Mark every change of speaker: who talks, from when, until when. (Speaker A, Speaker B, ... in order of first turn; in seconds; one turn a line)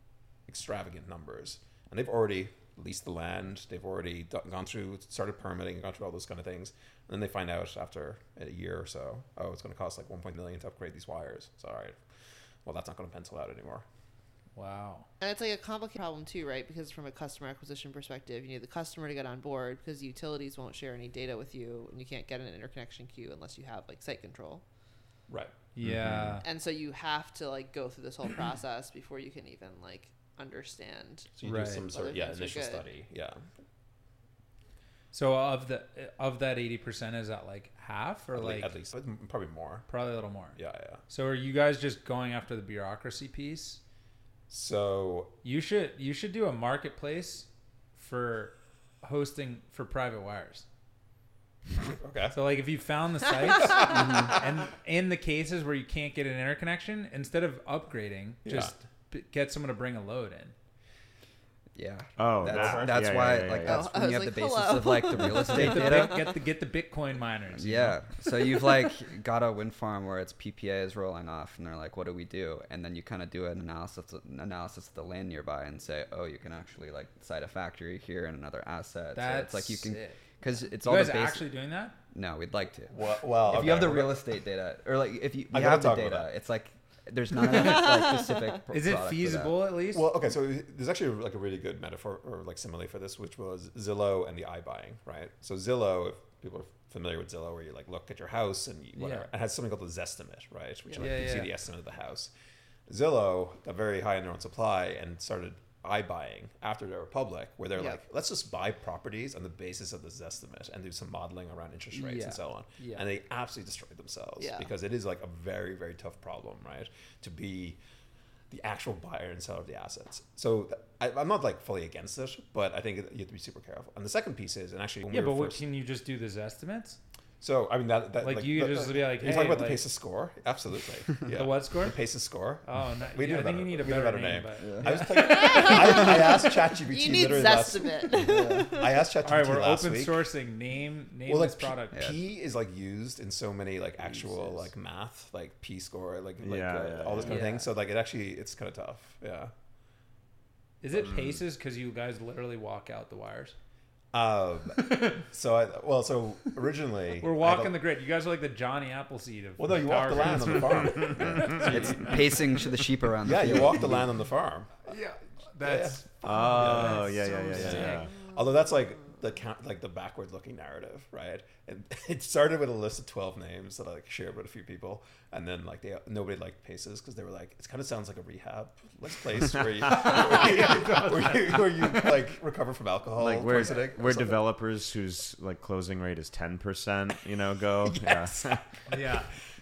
Speaker A: 0.5-12.0
Speaker A: 12.6-13.8
Speaker B: 14.6-15.1
Speaker C: 15.2-24.6
Speaker B: 25.7-26.4
Speaker D: 25.8-26.4
Speaker C: 26.4-31.3
Speaker A: 31.4-33.4
Speaker B: 31.4-31.9
Speaker C: 31.9-32.9
Speaker B: 35.1-38.7
Speaker A: 38.3-39.9
Speaker B: 39.9-43.8
Speaker A: 40.5-41.0
Speaker A: 44.5-45.3
Speaker B: 45.4-50.6
Speaker A: 52.0-52.4
Speaker B: 52.3-60.5
Speaker A: 53.8-54.2
Speaker E: 53.9-54.3
Speaker A: 58.5-58.8
Speaker E: 61.8-66.2
Speaker D: 62.2-64.0
Speaker A: 62.4-63.5
Speaker C: 63.6-66.3
Speaker B: 65.5-68.0
Speaker E: 67.5-81.5
Speaker B: 79.1-80.2
Speaker B: 80.8-82.0
Speaker E: 82.1-89.6
Speaker A: 82.9-84.2
Speaker A: 85.5-86.3
Speaker B: 88.7-90.1
Speaker A: 89.9-102.3
Speaker B: 99.0-99.3
Speaker C: 100.9-101.2
Speaker B: 101.0-101.5
Speaker A: 102.9-117.8
Speaker C: 107.8-108.0
Speaker B: 111.9-113.0
Speaker C: 114.4-114.7
Speaker A: 118.5-125.6
Speaker B: 125.1-127.0
Speaker A: 127.4-138.2
Speaker B: 128.2-129.8
Speaker B: 131.3-132.0
Speaker B: 132.6-136.0
Speaker E: 134.6-135.0
Speaker C: 135.4-139.0
Speaker B: 138.3-138.7
Speaker A: 138.8-140.3
Speaker B: 139.2-142.1
Speaker A: 141.3-149.5
Speaker E: 141.9-142.2
Speaker B: 144.0-144.7
Speaker D: 146.4-147.5
Speaker B: 147.2-147.7
Speaker B: 150.8-153.6
Speaker A: 154.1-157.8
Speaker B: 157.2-162.2
Speaker A: 159.6-162.7
Speaker D: 160.7-161.4
Speaker E: 161.2-164.1
Speaker A: 163.2-164.9
Speaker B: 164.9-168.1
Speaker A: 165.6-184.4
Speaker D: 166.2-168.2
Speaker B: 179.9-182.1
Speaker D: 183.2-188.8
Speaker A: 187.9-189.2
Speaker B: 188.9-189.3